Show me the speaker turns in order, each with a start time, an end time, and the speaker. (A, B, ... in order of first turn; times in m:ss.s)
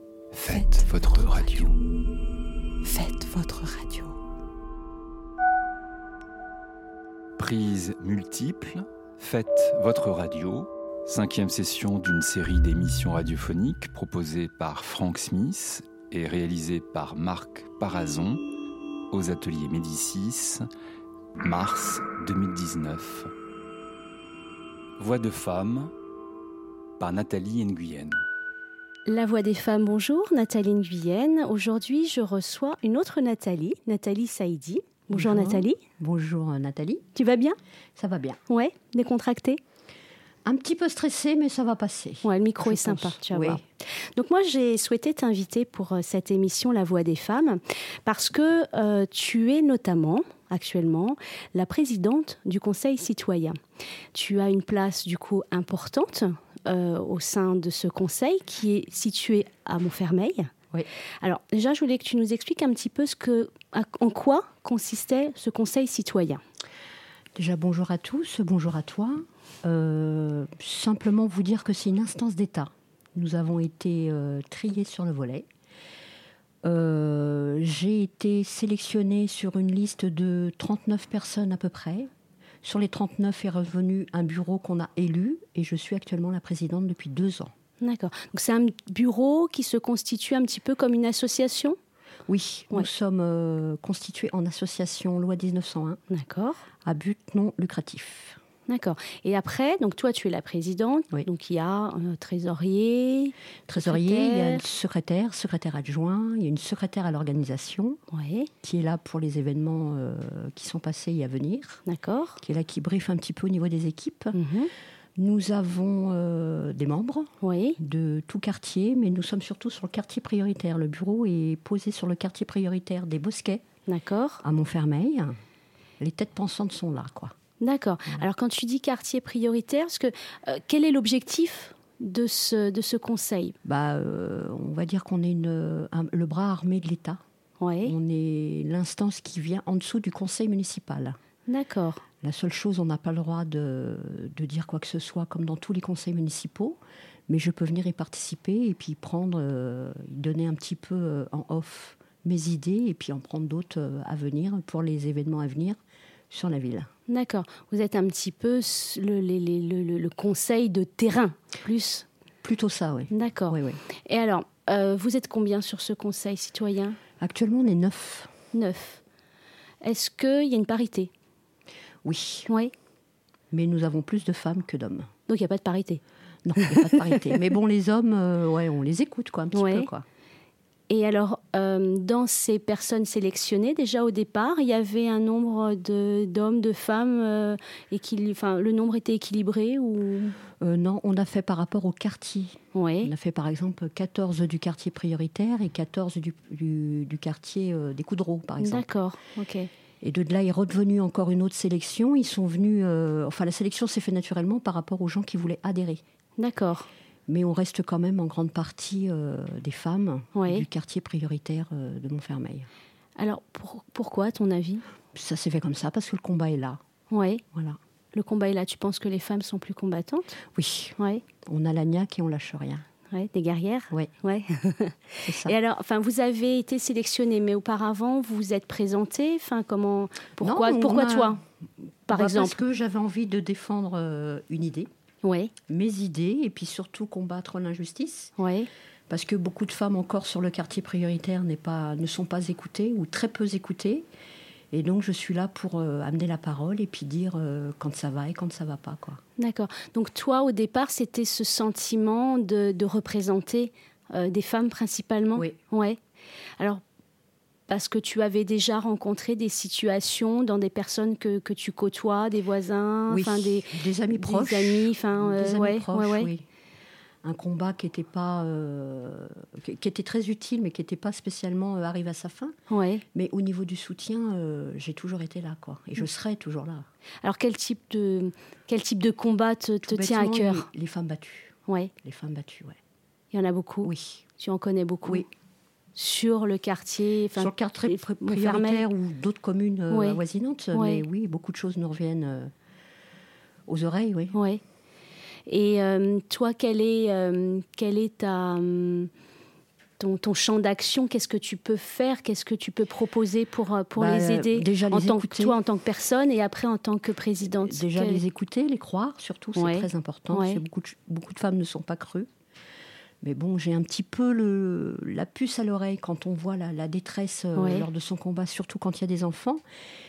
0:00.3-0:01.8 A
0:00.5-0:01.8 B
0:02.8-0:04.2 B
0:07.4-0:18.4 A
0:19.1-0:20.6 A
0:21.4-0:23.3 A
0:25.0-0:25.9 A
0:27.0-0:28.2 A
0:29.1-0:35.8 C
0:35.1-0:37.1 D
0:37.1-0:37.6 C
0:38.0-0:38.4 D
0:38.5-0:39.6 C
0:40.4-0:43.6 D
0:42.2-0:53.6 C
0:54.1-1:00.5 C
1:01.2-1:06.4 C
1:07.4-1:15.4 D
1:16.6-1:22.1 D
1:22.6-1:27.5 D
1:27.8-1:31.8 C
1:32.3-1:36.0 D
1:36.1-1:36.6 C
1:36.8-1:38.4 D
1:38.7-1:44.6 C
1:43.7-1:48.0 D
1:48.1-1:48.5 C
1:48.6-1:51.8 D
1:51.8-1:52.4 C
1:52.4-1:54.4 D
1:54.3-1:54.7 C
1:55.2-2:03.6 D
1:57.4-1:57.8 C
2:03.9-2:04.4 C
2:04.4-2:05.4 D
2:06.0-2:07.3 D
2:07.6-2:13.6 C
2:13.6-2:17.2 D
2:17.6-2:17.9 C
2:17.8-2:21.2 D
2:21.5-2:22.0 C
2:22.2-2:35.8 D
2:36.3-2:36.9 D
2:37.1-2:42.0 C
2:42.4-2:43.8 D
2:43.1-2:47.0 C
2:47.2-2:48.3 D
2:48.5-2:49.0 C
2:49.8-2:51.1 C
2:52.0-2:52.5 D
2:52.5-2:52.7 C
2:53.5-2:55.1 D
2:55.3-2:56.0 C
2:56.4-3:00.0 D
2:56.6-2:57.4 C
2:59.5-2:59.9 C
3:00.9-3:10.4 C
3:10.6-3:18.8 D
3:12.7-3:13.1 C
3:18.6-3:19.7 C
3:20.0-3:26.0 D
3:26.4-3:26.9 C
3:27.3-3:32.7 D
3:30.3-3:30.6 C
3:33.2-3:34.8 C
3:35.1-3:36.8 D
3:37.1-3:37.4 C
3:37.5-3:37.8 D
3:38.1-3:40.4 C
3:40.5-3:42.8 D
3:41.0-3:41.2 C
3:43.1-3:51.4 C
3:45.2-3:45.5 D
3:50.4-3:51.4 D
3:52.1-3:52.6 C
3:52.1-3:54.9 D
3:55.2-3:55.5 C
3:55.7-3:58.3 D
3:58.4-3:58.7 C
3:59.1-4:04.1 D
4:04.7-4:09.2 D
4:09.4-4:16.0 C
4:17.7-4:26.3 C
4:23.1-4:26.4 D
4:27.2-4:32.6 D
4:32.7-4:33.0 C
4:33.1-4:36.8 D
4:37.2-4:40.7 C
4:39.8-4:42.8 D
4:41.7-4:41.9 C
4:43.3-4:45.3 C
4:43.8-4:44.2 D
4:46.0-4:48.8 C
4:47.4-4:52.5 D
4:49.9-4:50.2 C
4:50.7-4:51.0 C
4:53.7-4:54.4 D
4:54.3-4:54.6 C
4:55.5-4:59.1 C
5:00.0-5:08.2 C
5:04.0-5:05.6 D
5:07.6-5:12.3 D
5:09.6-5:10.6 C
5:13.2-5:19.6 D
5:17.6-5:17.8 C